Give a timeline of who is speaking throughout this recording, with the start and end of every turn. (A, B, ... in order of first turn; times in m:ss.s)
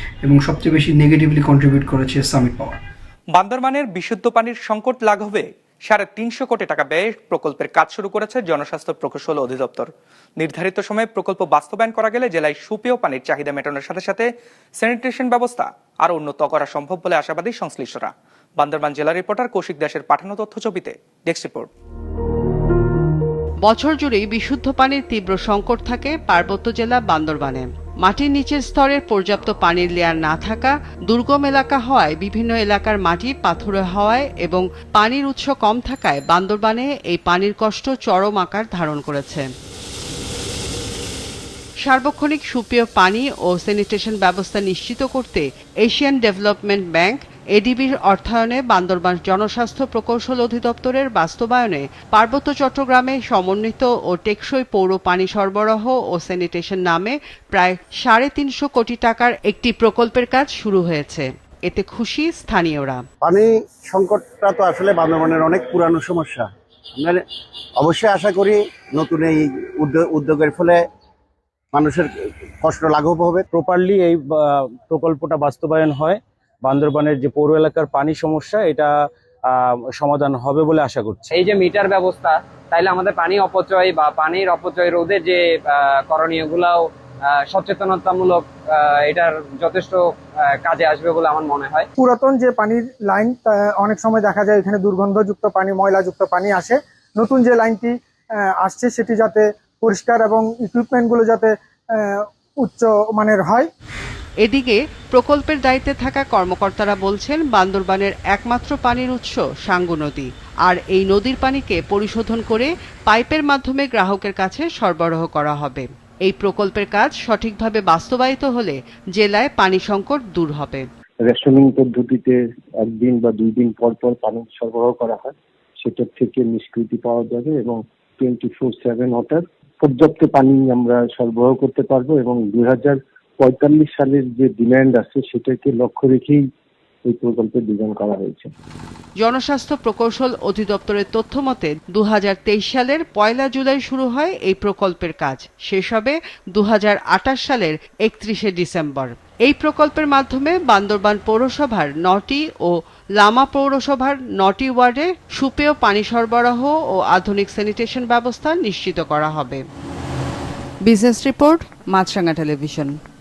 0:00.2-0:02.8 A
0:03.3-0:14.3 B
0:14.8-0:21.7 B
0:23.6-0:39.5 C
0:41.8-1:03.0 C
1:03.2-1:07.2 D
1:07.8-1:10.8 D
1:11.7-1:13.4 D
1:13.5-1:21.2 E
1:21.3-1:31.9 F
1:32.0-1:41.5 G
1:42.6-1:43.7 G
1:44.4-2:00.8 C
2:01.4-2:02.3 H
2:03.0-2:05.3 H
2:05.9-2:09.4 H
2:09.9-2:13.0 H
2:13.5-2:16.4 H
2:17.1-2:18.4 H
2:19.2-2:39.6 C
2:40.8-2:43.0 C